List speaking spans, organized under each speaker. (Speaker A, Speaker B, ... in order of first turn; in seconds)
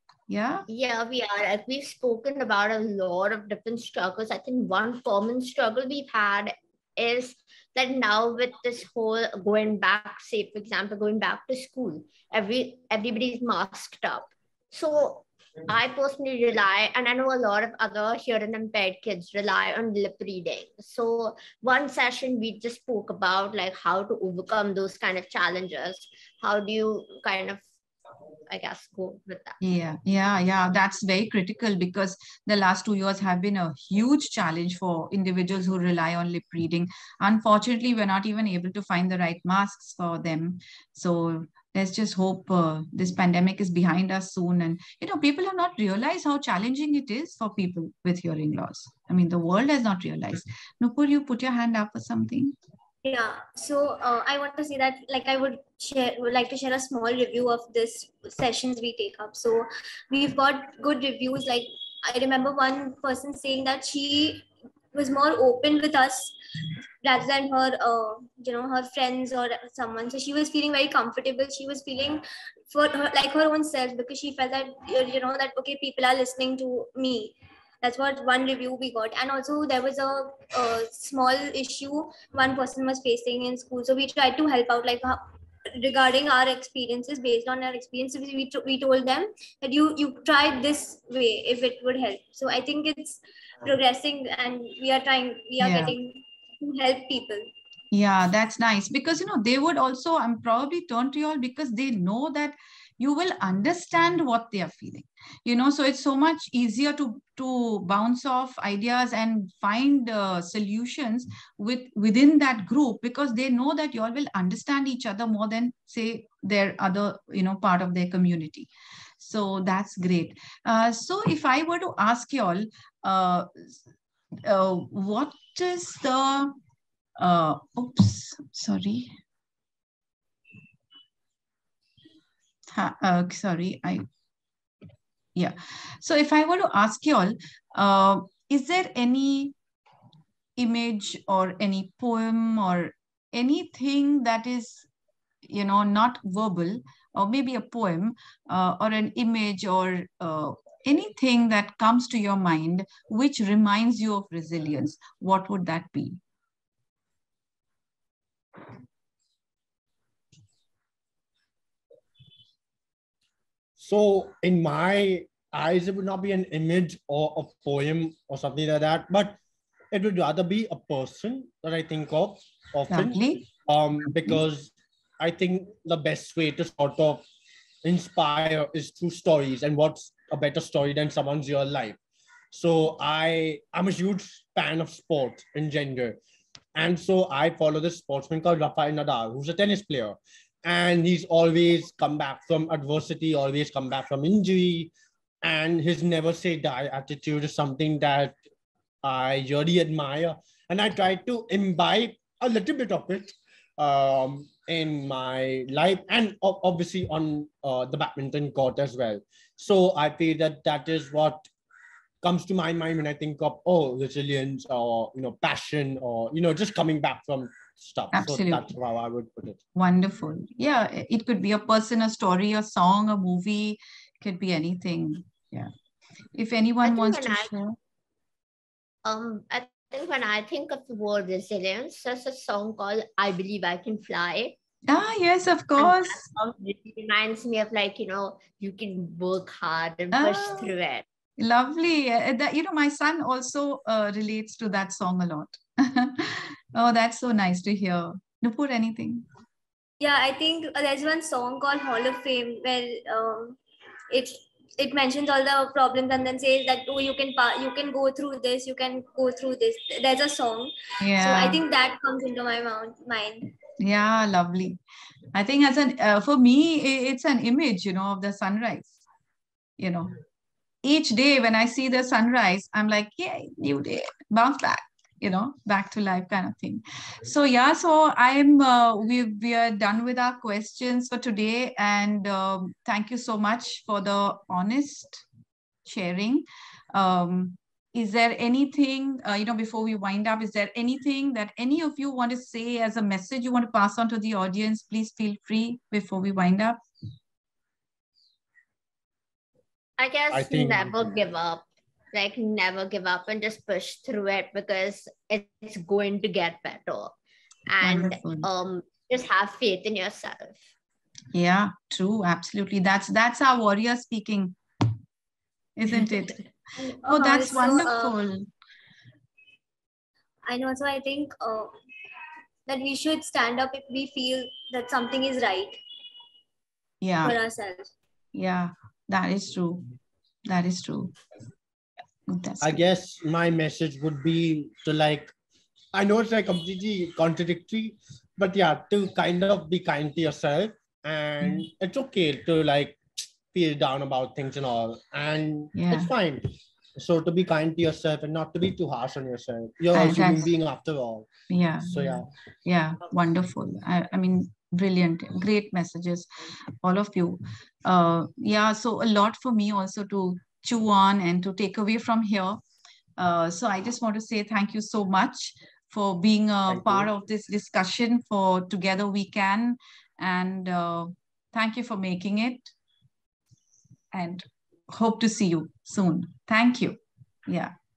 Speaker A: 0.3-0.7, 29.6-52.5, 95.6-96.0, 97.9-123.8, 124.4-126.5, 127.2-129.2, 132.7-134.1, 135.4-139.6, 140.6-144.9, 145.4-156.2, 172.9-173.5, 174.1-174.4, 218.1-218.7, 219.8-225.7, 226.3-227.8, 234.9-236.3, 240.1-240.7, 241.4-249.2, 261.0-261.6, 263.8-264.8, 265.3-268.9, 269.8-270.1, 270.8-285.3, 285.9-296.8, 307.8-308.5, 311.3-314.6, 315.8-316.5, 317.1-318.5, 327.0-327.4, 328.3-329.8, 330.5-331.1, 332.3-332.8, 341.4-341.7, 345.8-346.1, 349.9-350.5, 351.5-362.6, 363.2-372.7, 374.1-377.7
Speaker B: 0.7-27.7, 28.5-29.6, 226.8-227.5, 229.0-234.6, 235.8-241.1, 300.0-307.1, 307.7-310.6
Speaker C: 53.0-66.4, 67.0-97.5, 250.0-253.6, 254.1-263.5, 316.8-318.2, 320.4-321.7, 322.7-325.8, 327.2-327.9
Speaker D: 163.8-169.4, 169.9-177.2, 177.8-182.0, 182.5-186.2, 186.8-194.9, 195.4-198.4, 199.0-211.5, 212.2-219.6, 300.3-301.0, 332.6-335.3, 335.9-351.3, 351.8-352.3, 366.7-367.1